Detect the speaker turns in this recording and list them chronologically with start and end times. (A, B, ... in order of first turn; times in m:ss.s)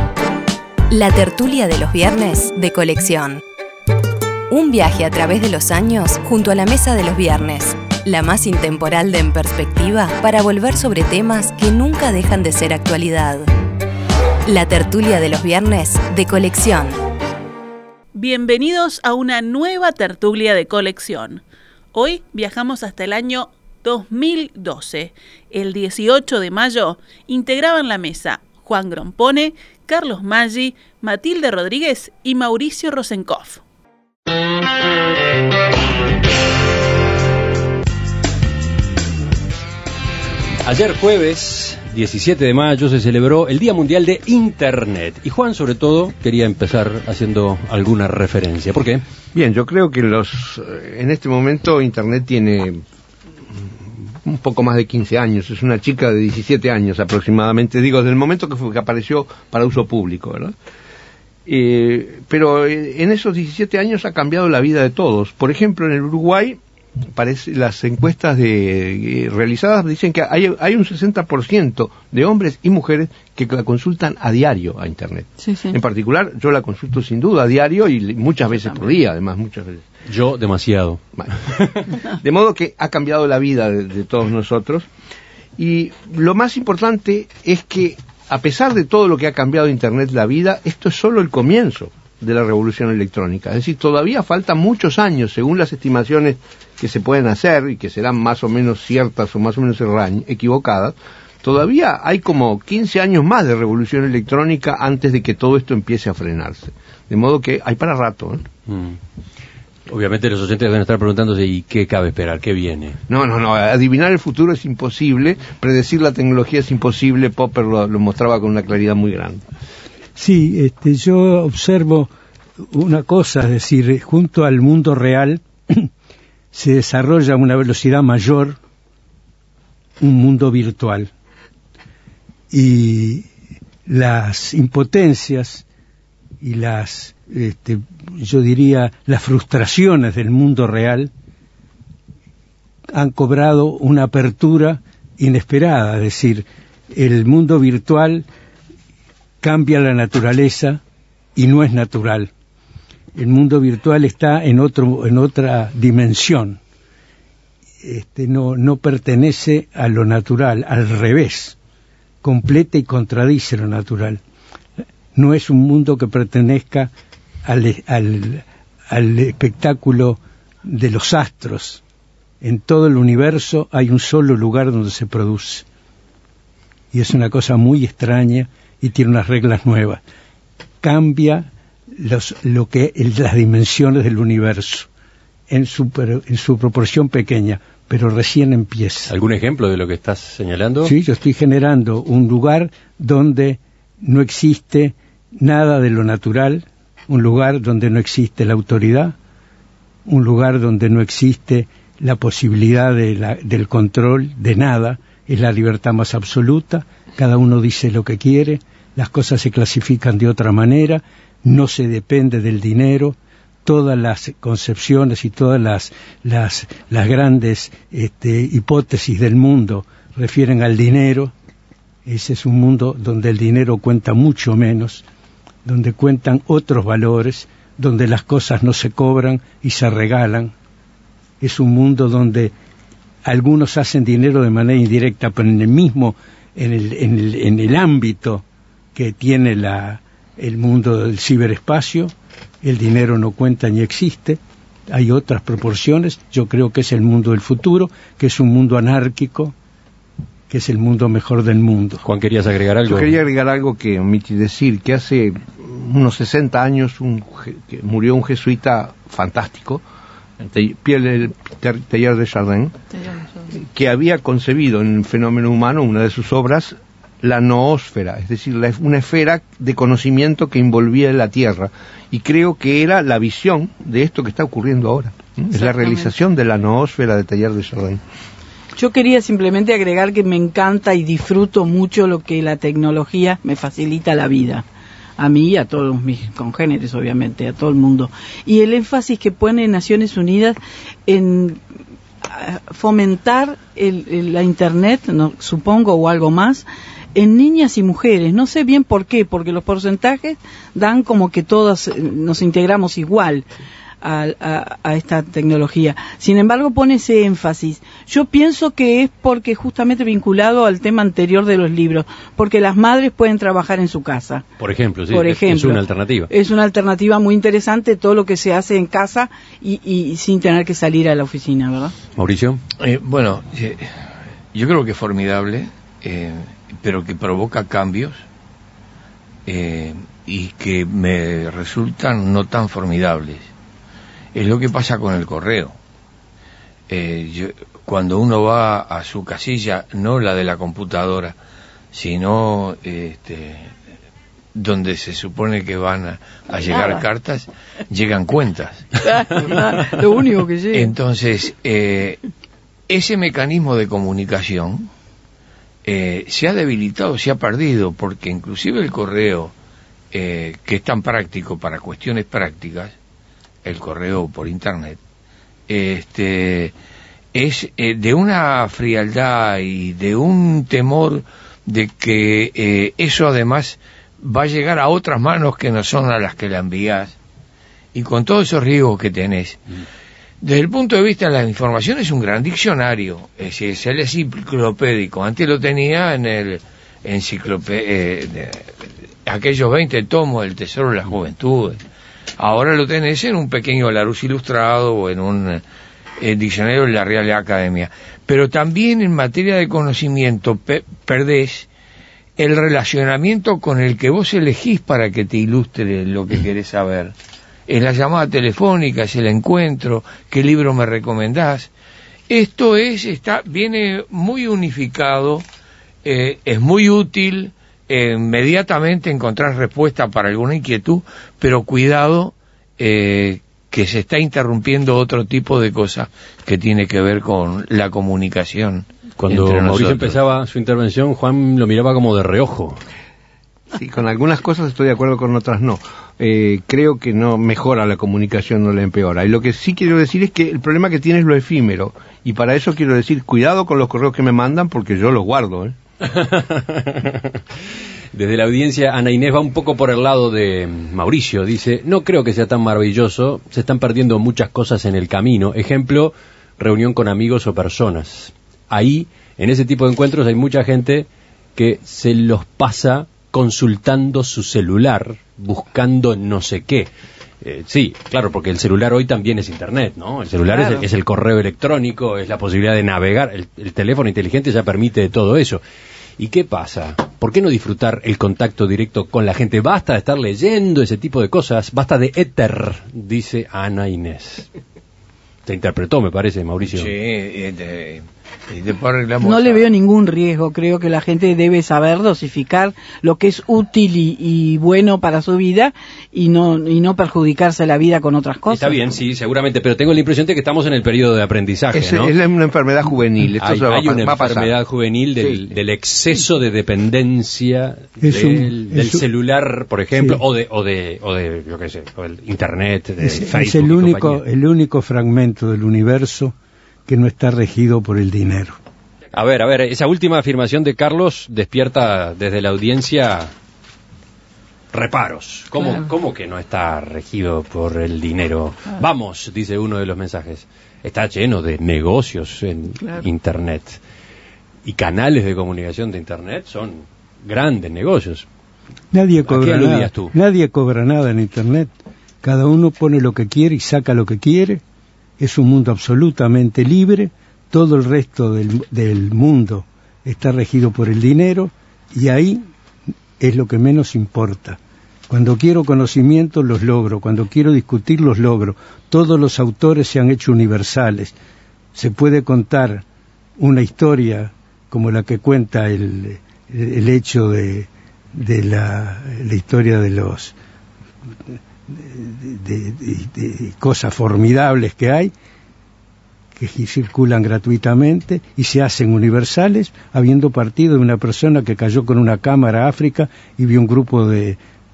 0:00.9-0:03.4 A
0:04.5-0:13.5 A
0:14.5-0:16.9 A
0:18.1-0:33.6 B
0:40.6-0:49.0 C
0:49.3-0:52.8 D
0:53.6-1:00.5 D
1:01.4-1:06.6 D
1:07.1-1:19.8 D
1:20.1-1:21.8 C
1:21.2-1:24.9 D
1:25.6-1:48.5 D
1:48.7-1:49.0 C
1:49.9-1:53.0 C
1:53.1-1:59.4 D
2:00.2-2:02.1 E
2:02.7-2:05.9 E
2:06.5-2:08.6 E
2:10.0-2:11.1 E
2:12.5-2:13.2 E
2:13.8-2:15.6 E
2:16.4-2:21.1 E
2:22.9-2:28.2 E
2:29.4-2:30.8 E
2:31.4-2:32.3 E
2:33.1-2:36.6 E
2:37.8-2:41.6 E
2:42.2-2:44.2 E
2:45.1-2:46.9 E
2:47.4-2:51.8 E
2:52.4-2:55.6 E
2:56.9-3:00.0 E
3:00.8-3:04.9 E
3:05.5-3:09.1 E
3:09.1-3:10.9 C
3:10.8-3:19.1 E
3:20.0-3:41.3 E
3:42.0-3:45.0 E
3:45.6-3:50.5 E
3:51.4-3:52.5 E
3:53.2-4:09.5 E
4:10.5-4:12.0 E
4:12.0-4:13.1 C
4:12.9-4:19.8 D
4:20.4-4:22.7 D
4:23.5-4:38.0 D
4:35.6-4:36.0 F
4:38.8-4:44.6 F
4:45.2-4:51.6 F
4:52.2-5:03.5 F
5:04.0-5:14.4 F
5:14.6-5:16.3 C
5:15.1-5:21.9 F
5:22.2-5:22.6 C
5:22.8-5:23.8 G
5:24.5-5:28.2 G
5:29.4-5:33.5 G
5:34.3-5:35.7 G
5:36.9-5:41.4 G
5:41.9-5:43.6 G
5:44.5-5:48.9 G
5:46.7-5:47.0 F
5:49.0-5:50.9 F
5:50.7-5:52.2 G
5:52.9-5:54.9 G
5:55.8-5:59.5 G
6:00.1-6:02.9 G
6:03.6-6:05.0 G
6:05.7-6:06.7 G
6:07.3-6:17.2 G
6:17.9-6:19.6 G
6:20.4-6:31.8 G
6:32.4-6:35.6 G
6:36.2-6:41.7 G
6:42.4-6:47.1 G
6:47.7-6:51.7 G
6:52.3-6:55.4 G
6:56.0-7:10.1 G
7:09.2-7:12.8 C
7:13.7-7:25.8 D
7:26.1-7:27.4 C
7:28.1-7:46.9 C
7:47.4-7:55.6 C
7:56.2-8:04.4 C
8:05.4-8:06.9 C
8:06.7-8:09.7 G
8:09.2-8:18.9 F
8:18.5-8:22.1 C
8:21.7-8:24.5 D
8:23.3-8:34.2 C
8:25.2-8:25.5 D
8:28.0-8:29.0 E
8:29.9-8:30.2 E
8:33.0-8:36.3 E
8:36.9-8:38.6 E
8:39.1-8:43.3 C
8:44.7-8:53.8 C
8:54.6-8:58.2 C
8:58.9-9:01.7 E
8:59.2-9:00.1 C
9:02.2-9:04.6 E
9:05.2-9:12.5 E
9:13.2-9:21.1 E
9:21.7-9:22.8 E
9:23.4-9:30.3 E
9:31.7-9:35.1 E
9:36.4-9:44.4 E